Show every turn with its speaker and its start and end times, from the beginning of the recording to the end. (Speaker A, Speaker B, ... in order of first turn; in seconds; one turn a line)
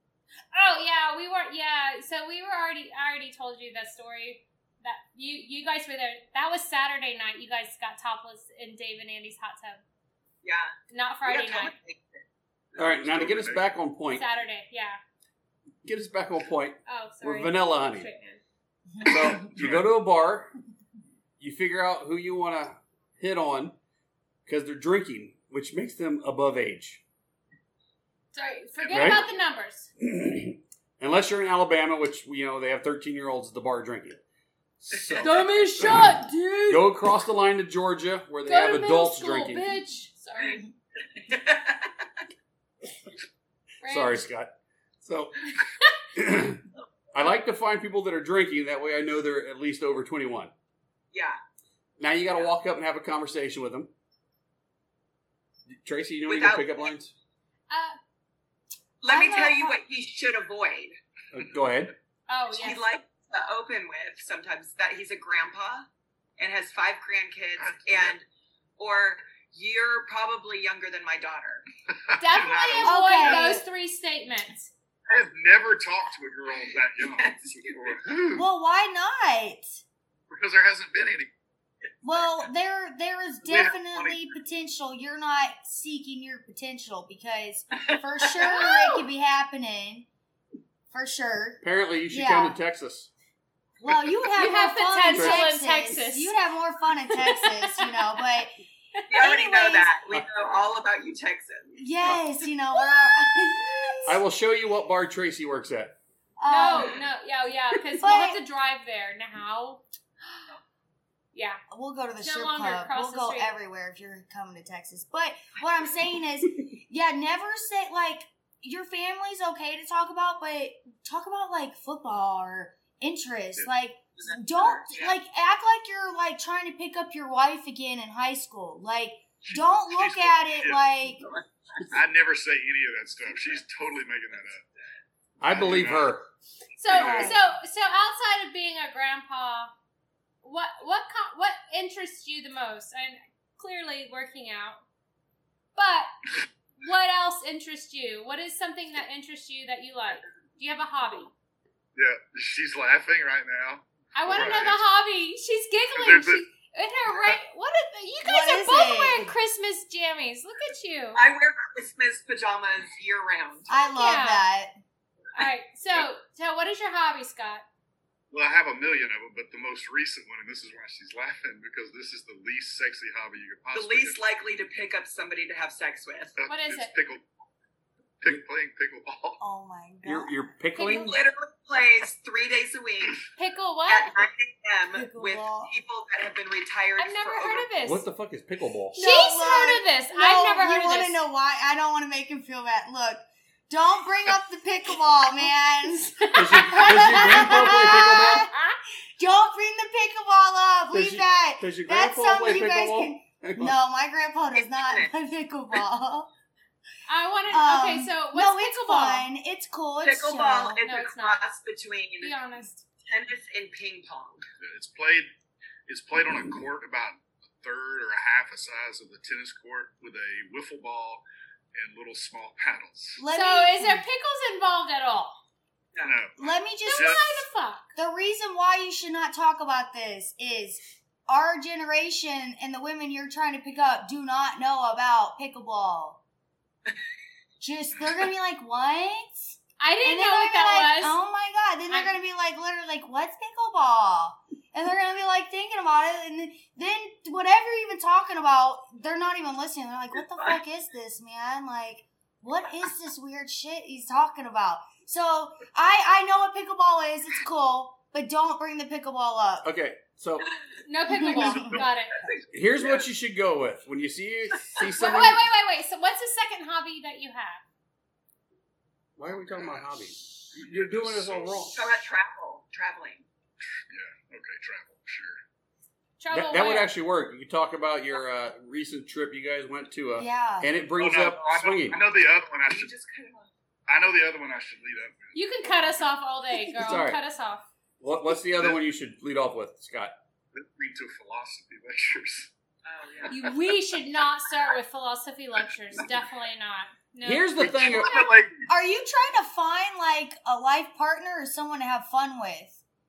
Speaker A: 0.5-9.8
Speaker B: 10.4-10.7
Speaker A: 10.9-11.7
Speaker B: 11.3-12.2
Speaker C: 12.8-14.2
Speaker D: 12.8-13.7
Speaker A: 14.2-15.0
Speaker C: 15.8-18.1
Speaker A: 16.9-18.4
Speaker C: 19.0-20.5
Speaker D: 19.3-19.9
Speaker C: 21.4-23.8
Speaker C: 24.5-27.0
Speaker A: 28.3-29.9
Speaker D: 28.8-29.3
Speaker C: 28.9-29.2
Speaker C: 30.0-34.2
Speaker C: 34.8-39.7
Speaker A: 35.2-36.9
Speaker A: 38.5-40.7
Speaker B: 41.2-41.9
Speaker A: 43.8-44.2
Speaker C: 43.9-45.5
Speaker C: 46.1-50.5
Speaker B: 51.1-51.4
Speaker C: 52.0-53.9
Speaker C: 55.7-57.1
Speaker B: 56.3-56.8
Speaker A: 57.7-58.0
Speaker B: 59.0-61.0
Speaker E: 59.1-59.6
Speaker A: 59.1-59.5
Speaker C: 61.3-61.9
Speaker A: 62.3-62.9
Speaker B: 62.5-65.9
Speaker B: 66.4-68.2
Speaker D: 67.6-68.2
Speaker B: 68.8-71.7
Speaker D: 72.0-73.4
Speaker A: 72.2-74.7
Speaker E: 72.8-73.6
Speaker D: 75.1-78.5
Speaker B: 76.5-78.0
Speaker E: 78.3-79.8
Speaker D: 80.3-81.3
Speaker E: 82.0-90.1
Speaker D: 83.4-84.3
Speaker B: 87.8-88.3
Speaker A: 88.4-89.0
Speaker E: 90.9-92.6
Speaker C: 91.6-93.1
Speaker E: 93.8-98.6
Speaker A: 94.3-96.3
Speaker C: 95.1-95.4
Speaker A: 97.1-98.2
Speaker A: 99.0-99.3
Speaker B: 99.1-101.8
Speaker E: 99.2-99.9
Speaker E: 101.7-104.2
Speaker C: 104.1-106.0
Speaker E: 106.4-107.0
Speaker A: 106.5-109.8
Speaker E: 107.9-108.4
Speaker A: 111.3-111.6
Speaker E: 111.7-131.2
Speaker A: 112.2-113.5
Speaker B: 124.2-125.2
Speaker D: 129.4-130.8
Speaker B: 131.2-131.9
Speaker D: 131.9-134.6
Speaker C: 135.4-136.3
Speaker D: 135.4-136.1
Speaker A: 136.8-139.7
Speaker D: 136.9-137.4
Speaker E: 136.9-137.4
Speaker A: 140.4-144.8
Speaker A: 145.8-146.1
Speaker A: 146.8-151.3
Speaker D: 152.0-154.8
Speaker A: 154.1-161.2
Speaker D: 155.9-156.4
Speaker E: 158.2-159.3
Speaker B: 161.2-163.7
Speaker E: 163.7-164.7
Speaker A: 163.9-164.4
Speaker A: 165.3-167.7
Speaker D: 168.3-174.2
Speaker B: 173.7-176.3
Speaker D: 176.4-177.3
Speaker A: 176.5-176.9
Speaker D: 178.2-179.4
Speaker E: 179.4-180.5
Speaker C: 180.0-181.2
Speaker B: 180.8-183.2
Speaker A: 183.4-184.2
Speaker B: 183.9-187.7
Speaker E: 184.9-185.7
Speaker A: 187.0-188.0
Speaker C: 187.9-189.0
Speaker E: 188.9-198.5
Speaker A: 189.0-191.2
Speaker A: 196.2-198.8
Speaker C: 196.3-198.5
Speaker E: 199.2-206.3
Speaker C: 200.9-203.8
Speaker B: 204.6-205.1
Speaker A: 207.1-209.3
Speaker E: 207.5-210.8
Speaker B: 210.0-212.3
Speaker A: 210.8-211.4
Speaker A: 212.2-212.8
Speaker B: 213.0-214.4
Speaker D: 214.6-215.3
Speaker D: 215.9-223.2
Speaker E: 223.2-224.0
Speaker A: 223.3-225.4
Speaker B: 225.9-226.2
Speaker D: 226.0-227.4
Speaker E: 226.4-227.2
Speaker A: 226.9-227.9
Speaker E: 227.9-236.2
Speaker E: 237.6-259.7
Speaker A: 239.8-241.2
Speaker B: 250.3-250.6
Speaker C: 259.6-260.5
Speaker A: 260.9-262.2
Speaker E: 261.1-261.8
Speaker D: 261.6-261.8
Speaker B: 261.8-263.1
Speaker C: 262.5-265.5
Speaker A: 264.9-267.6
Speaker C: 269.2-271.8
Speaker D: 269.3-270.0
Speaker D: 270.5-271.7
Speaker B: 271.7-273.3
Speaker D: 273.9-275.4
Speaker A: 276.2-276.9
Speaker C: 276.3-282.0
Speaker E: 280.1-280.8
Speaker D: 280.9-282.9
Speaker B: 282.7-283.5
Speaker D: 283.9-285.8
Speaker A: 285.3-287.7
Speaker C: 286.8-287.2
Speaker C: 288.0-290.1
Speaker D: 290.6-292.5
Speaker B: 292.9-293.4
Speaker A: 293.3-298.3
Speaker C: 297.2-298.2
Speaker D: 297.6-298.7
Speaker E: 298.7-302.8